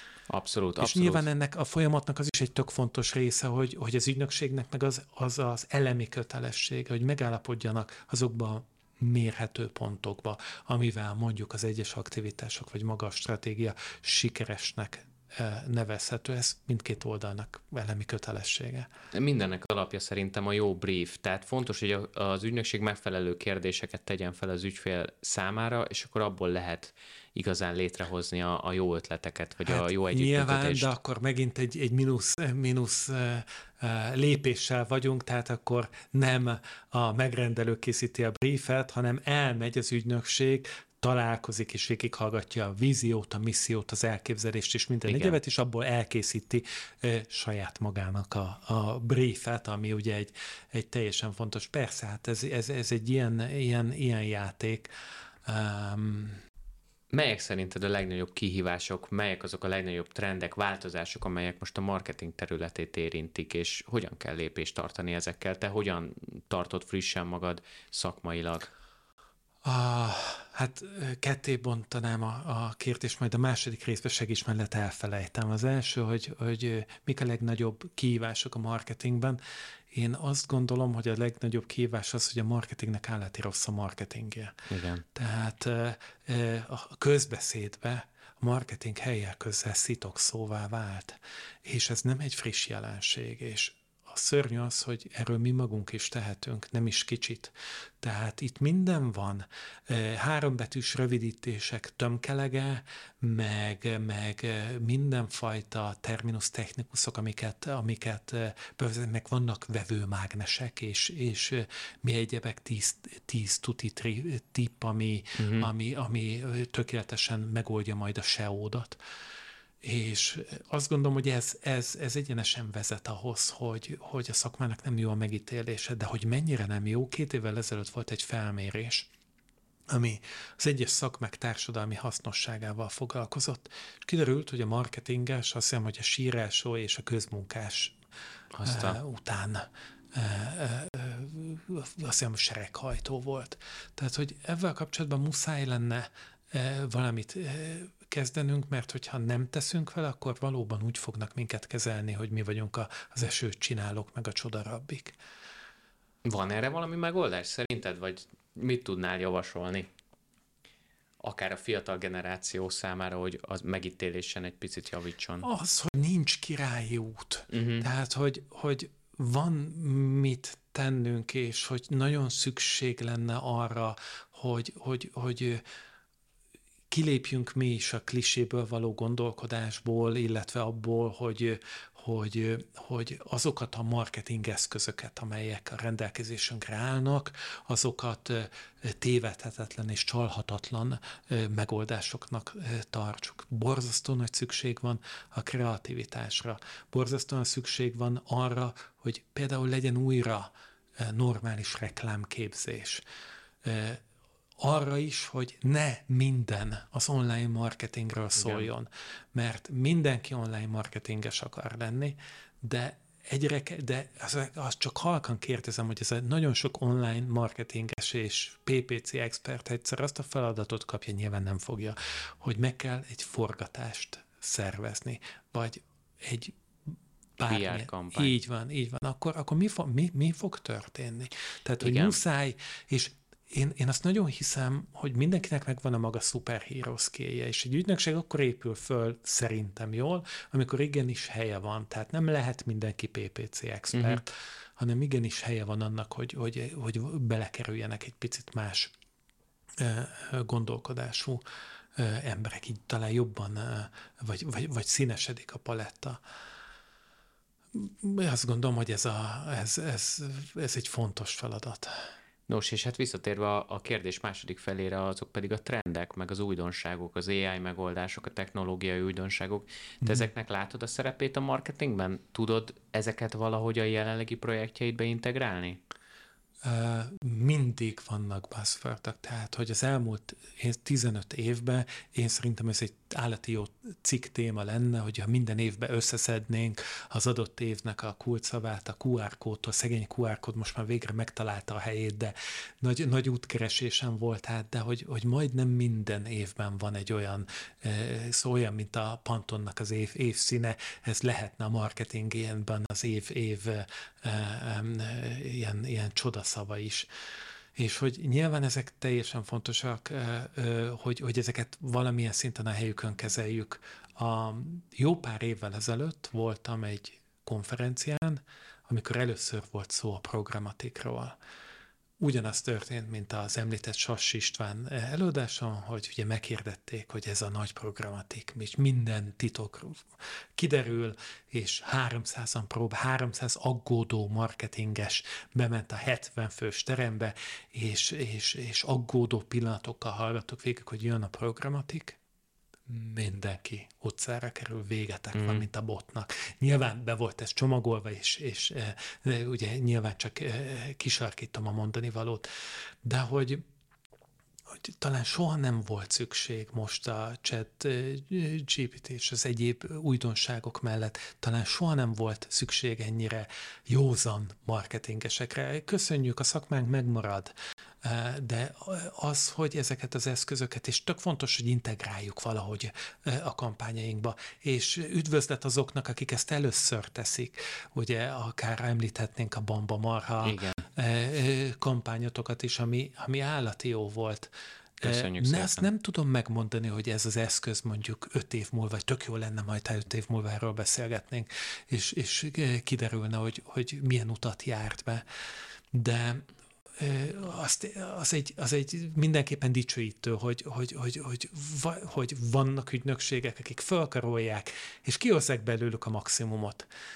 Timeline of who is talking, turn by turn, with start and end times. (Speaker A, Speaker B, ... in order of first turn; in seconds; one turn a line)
Speaker A: 0.3-1.3
Speaker B: 0.8-18.9
Speaker A: 19.1-30.9
Speaker B: 29.6-54.9
Speaker A: 45.1-45.4
Speaker B: 55.5-56.4
Speaker A: 57.1-68.7
Speaker B: 69.7-79.4
Speaker B: 79.9-119.0
Speaker A: 84.7-85.0
Speaker A: 115.4-115.7
Speaker B: 119.8-129.1
Speaker B: 129.9-138.0
Speaker A: 138.6-139.0
Speaker B: 138.6-155.2
Speaker A: 156.2-159.9
Speaker A: 161.2-165.5
Speaker B: 165.4-175.6
Speaker A: 167.5-167.9
Speaker B: 176.9-203.0
Speaker B: 203.6-204.0
Speaker B: 204.6-226.6
Speaker A: 208.4-208.7
Speaker B: 227.4-248.9
Speaker A: 227.5-228.3
Speaker A: 231.8-232.2
Speaker A: 243.9-244.2
Speaker B: 249.8-251.4
Speaker B: 252.0-256.2
Speaker B: 257.7-261.9
Speaker A: 262.5-275.8
Speaker B: 276.6-307.1
Speaker B: 307.8-321.4
Speaker B: 322.2-342.2
Speaker B: 342.9-352.5
Speaker A: 345.4-345.7
Speaker B: 353.0-353.6
Speaker B: 354.7-395.2
Speaker A: 380.4-380.8
Speaker A: 385.0-385.9
Speaker B: 395.9-396.5
Speaker B: 397.0-406.9